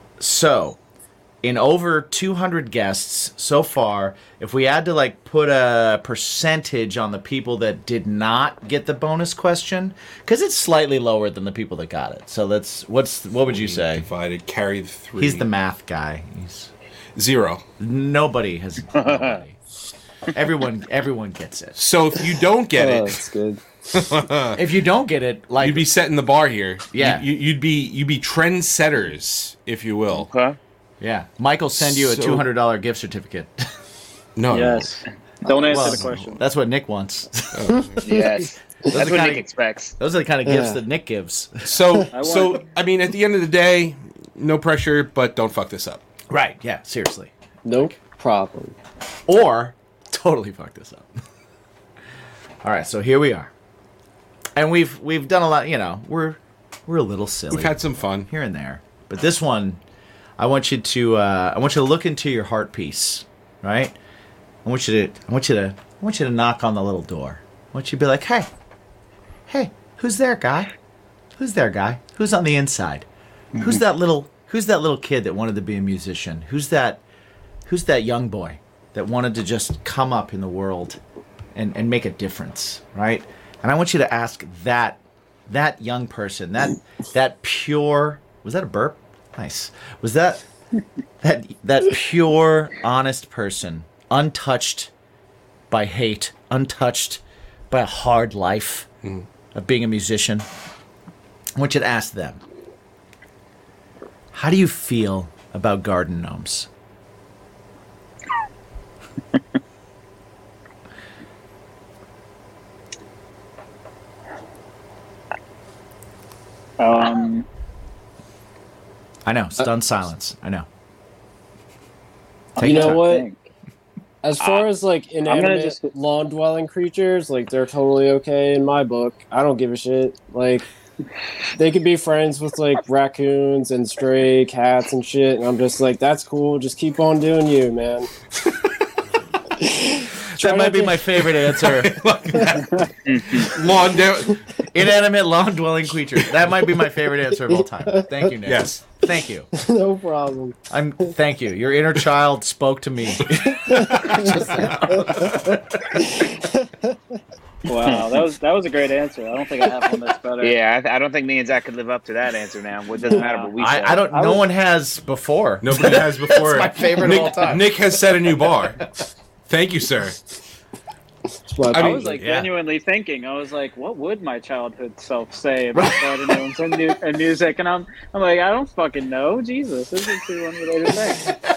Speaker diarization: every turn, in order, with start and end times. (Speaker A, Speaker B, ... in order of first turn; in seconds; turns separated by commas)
Speaker A: 0.2-0.8, Speaker A: 1.4-14.1, Speaker B: 13.5-15.5, Speaker A: 15.2-16.7, Speaker B: 17.2-17.6, Speaker A: 17.8-19.6, Speaker C: 19.0-19.4, Speaker A: 20.3-21.8, Speaker B: 21.8-23.2, Speaker D: 22.8-23.6, Speaker B: 23.9-24.6, Speaker A: 24.6-25.9, Speaker B: 25.6-30.3, Speaker A: 26.9-27.2, Speaker C: 30.1-30.6, Speaker A: 31.0-33.7, Speaker B: 31.8-32.5, Speaker B: 34.4-34.9, Speaker E: 34.5-36.4, Speaker C: 35.5-35.8, Speaker A: 35.7-37.9, Speaker B: 37.5-38.0, Speaker C: 38.0-40.0, Speaker A: 38.9-39.5, Speaker A: 40.0-41.7, Speaker D: 40.5-40.8, Speaker B: 41.6-46.0, Speaker E: 42.1-42.7, Speaker A: 46.3-47.9, Speaker D: 47.6-48.8, Speaker A: 49.3-51.2, Speaker A: 52.6-53.5, Speaker A: 54.6-59.8, Speaker B: 57.5-58.3, Speaker A: 60.4-64.0, Speaker A: 64.7-68.5, Speaker A: 69.5-70.7, Speaker A: 71.4-77.0, Speaker A: 77.7-81.0, Speaker A: 81.5-90.5, Speaker A: 91.2-94.9, Speaker A: 95.7-98.9, Speaker A: 99.5-100.5, Speaker A: 101.6-102.4, Speaker A: 104.3-106.7, Speaker E: 116.8-117.5, Speaker C: 117.0-117.3, Speaker A: 119.2-120.7, Speaker A: 122.6-123.0, Speaker E: 122.6-123.5, Speaker D: 122.6-123.3, Speaker D: 124.2-130.7, Speaker C: 124.4-124.7, Speaker E: 125.3-125.9, Speaker D: 131.6-138.1, Speaker D: 139.6-141.0, Speaker A: 140.4-142.0, Speaker B: 141.3-144.4, Speaker D: 142.3-142.6, Speaker C: 143.1-143.6, Speaker A: 144.7-149.5, Speaker D: 147.5-148.2, Speaker B: 148.4-148.8, Speaker D: 149.5-150.6, Speaker A: 150.7-155.5, Speaker D: 153.6-157.2, Speaker B: 153.7-155.3, Speaker E: 157.7-160.6, Speaker C: 157.8-158.1, Speaker C: 160.4-164.1, Speaker E: 163.1-163.5, Speaker A: 163.6-167.7, Speaker E: 164.1-164.4, Speaker B: 165.6-168.9, Speaker B: 169.5-170.2, Speaker D: 171.5-172.2, Speaker E: 171.7-181.3, Speaker B: 171.7-172.2, Speaker A: 172.2-172.5, Speaker A: 175.8-176.1